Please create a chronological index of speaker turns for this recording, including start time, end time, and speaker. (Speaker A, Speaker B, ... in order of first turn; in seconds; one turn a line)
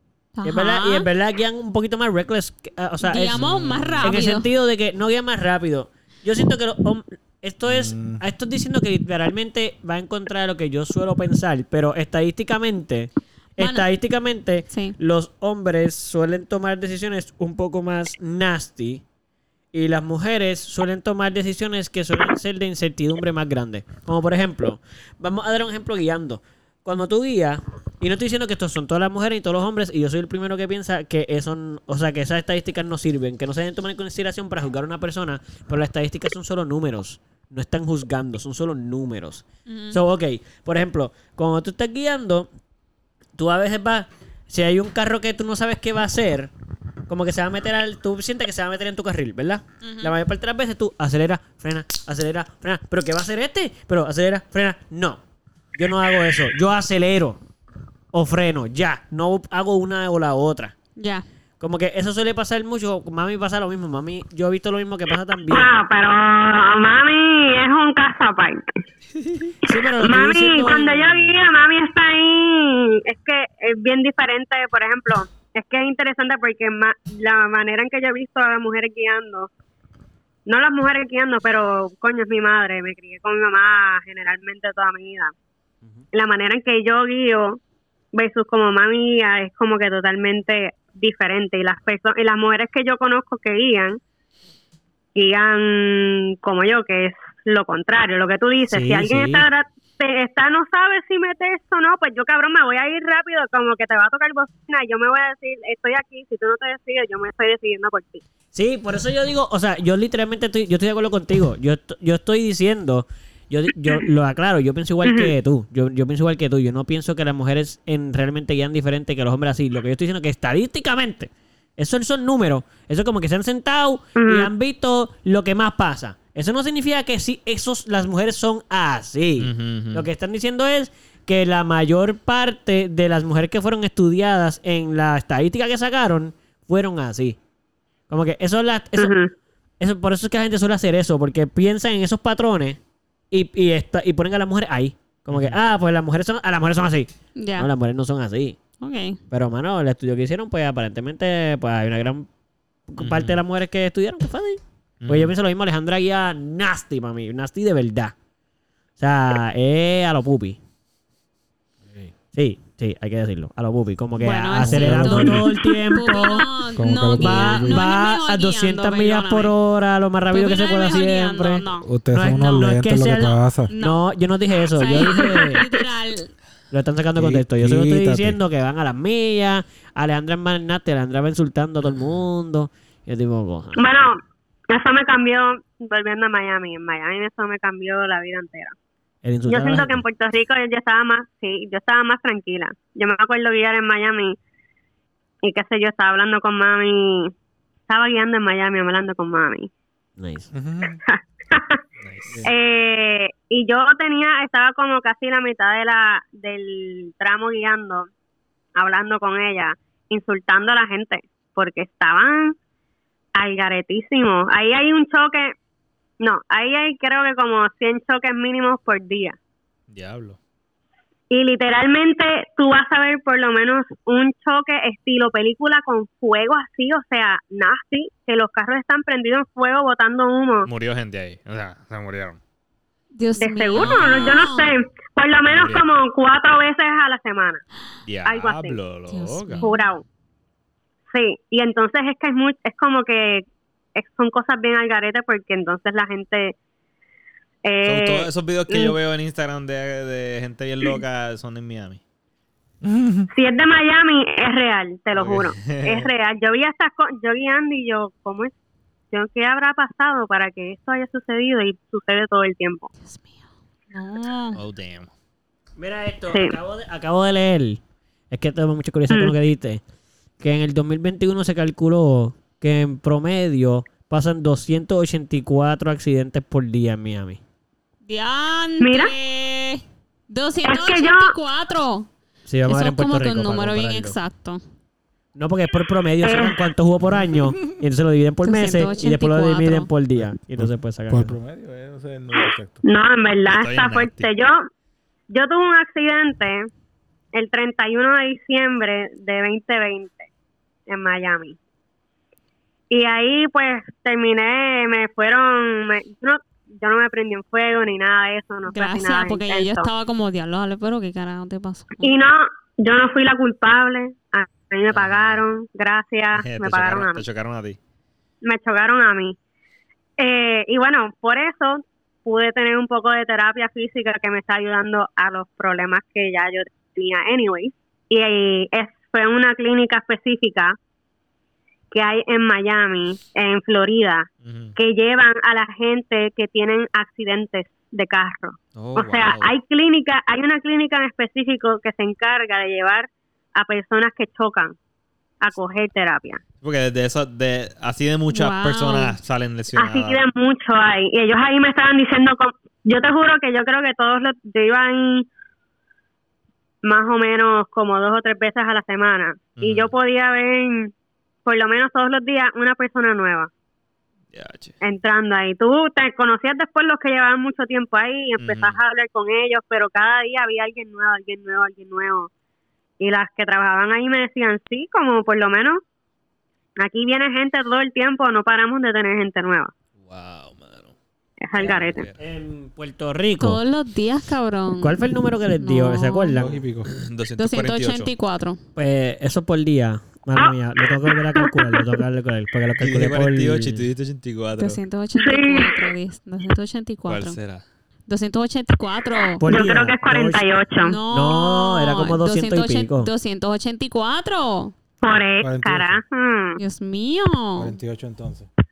Speaker A: 0.4-1.1
Speaker B: 0.4-19.0
Speaker A: 3.0-4.5
Speaker C: 3.4-4.2
Speaker C: 7.7-8.2
Speaker A: 13.6-13.9
Speaker B: 19.7-42.5
Speaker A: 39.7-40.0
Speaker B: 43.4-46.5
Speaker B: 47.1-55.2
Speaker A: 49.8-50.1
Speaker B: 55.8-57.4
Speaker B: 58.1-60.7
Speaker A: 61.0-61.2
Speaker B: 61.6-65.7
Speaker D: 65.5-68.8
Speaker B: 69.6-71.3
Speaker D: 70.0-79.5
Speaker D: 80.5-85.3
Speaker D: 86.1-87.6
Speaker D: 88.1-94.0
Speaker D: 95.2-108.2
Speaker B: 98.7-99.5
Speaker B: 108.5-137.4
Speaker D: 115.0-115.3
Speaker D: 124.2-124.5
Speaker E: 129.4-130.1
Speaker B: 138.1-139.2
Speaker D: 139.0-139.3
Speaker B: 139.8-142.8
Speaker B: 143.3-148.6
Speaker E: 145.3-145.6
Speaker A: 147.4-147.7
Speaker A: 148.8-149.2
Speaker B: 149.3-152.3
Speaker B: 152.9-158.2
Speaker E: 153.0-153.4
Speaker E: 155.0-155.3
Speaker B: 159.0-160.6
Speaker B: 162.3-166.5
Speaker A: 164.2-169.5
Speaker C: 164.6-165.5
Speaker C: 166.8-167.9
Speaker B: 167.2-175.6
Speaker A: 170.3-171.9
Speaker C: 171.8-173.7
Speaker A: 173.7-174.1
Speaker A: 174.8-176.3
Speaker D: 175.0-175.5
Speaker B: 176.7-183.8
Speaker C: 177.2-178.4
Speaker D: 183.8-188.7
Speaker B: 189.2-190.0
Speaker D: 189.5-194.4
Speaker D: 195.4-197.3
Speaker D: 197.9-199.7
Speaker B: 200.2-200.5
Speaker C: 200.5-201.0
Speaker D: 201.1-201.8
Speaker E: 202.0-202.4
Speaker D: 202.4-208.1
Speaker D: 208.8-212.6
Speaker D: 213.4-215.6
Speaker D: 216.2-219.4
Speaker E: 219.9-220.4
Speaker D: 221.3-230.7
Speaker E: 230.7-232.4
Speaker A: 233.2-234.7
Speaker D: 233.4-237.6
Speaker E: 233.8-234.5
Speaker E: 235.5-235.9
Speaker E: 238.1-239.7
Speaker D: 238.2-238.8
Speaker A: 239.1-239.7
Speaker D: 239.6-240.0
Speaker D: 241.1-246.6
Speaker D: 247.6-249.0
Speaker E: 247.8-252.0
Speaker C: 252.8-253.3
Speaker D: 253.3-258.5
Speaker E: 255.1-256.1
Speaker D: 259.1-262.9
Speaker A: 263.1-263.3
Speaker A: 263.9-264.6
Speaker E: 264.5-265.1
Speaker B: 265.8-269.8
Speaker D: 266.3-266.6
Speaker B: 270.4-277.4
Speaker A: 278.1-282.1
Speaker D: 278.8-279.1
Speaker D: 280.6-281.3
Speaker B: 282.5-284.2
Speaker A: 282.7-284.6
Speaker B: 285.4-291.4
Speaker D: 286.2-286.6
Speaker A: 288.4-289.9
Speaker C: 290.6-292.8
Speaker D: 292.8-294.7
Speaker E: 293.5-294.3
Speaker D: 295.3-296.7
Speaker D: 297.3-300.3
Speaker D: 300.9-301.6
Speaker D: 302.9-309.9
Speaker A: 308.7-312.1
Speaker D: 312.0-317.2
Speaker E: 314.9-315.4
Speaker E: 316.4-317.8
Speaker D: 318.4-319.4
Speaker D: 320.2-330.8
Speaker D: 331.9-344.8
Speaker E: 334.4-334.8
Speaker E: 338.8-339.5
Speaker D: 345.4-346.4
Speaker E: 346.6-350.2
Speaker A: 348.3-349.2
Speaker D: 349.8-355.3
Speaker D: 356.8-360.9
Speaker E: 359.6-359.9
Speaker D: 361.4-363.5
Speaker E: 364.3-364.8
Speaker D: 364.8-372.3
Speaker E: 368.4-368.8
Speaker D: 373.0-375.8
Speaker D: 376.8-379.7
Speaker E: 380.0-380.9
Speaker D: 381.4-382.1
Speaker E: 381.6-382.1
Speaker B: 382.2-383.6
Speaker A: 383.4-385.0
Speaker B: 384.8-386.6
Speaker A: 385.6-386.4
Speaker C: 386.4-386.9
Speaker E: 386.9-388.1
Speaker A: 387.4-388.6
Speaker B: 388.8-393.9
Speaker E: 392.8-394.8
Speaker A: 394.6-397.4
Speaker D: 395.2-395.8
Speaker E: 397.1-397.6
Speaker A: 398.1-399.4
Speaker B: 399.4-400.4
Speaker D: 399.4-401.0
Speaker A: 400.8-404.7
Speaker B: 401.1-403.1
Speaker D: 405.0-406.6
Speaker C: 405.4-406.0
Speaker A: 406.6-407.7
Speaker C: 407.6-408.5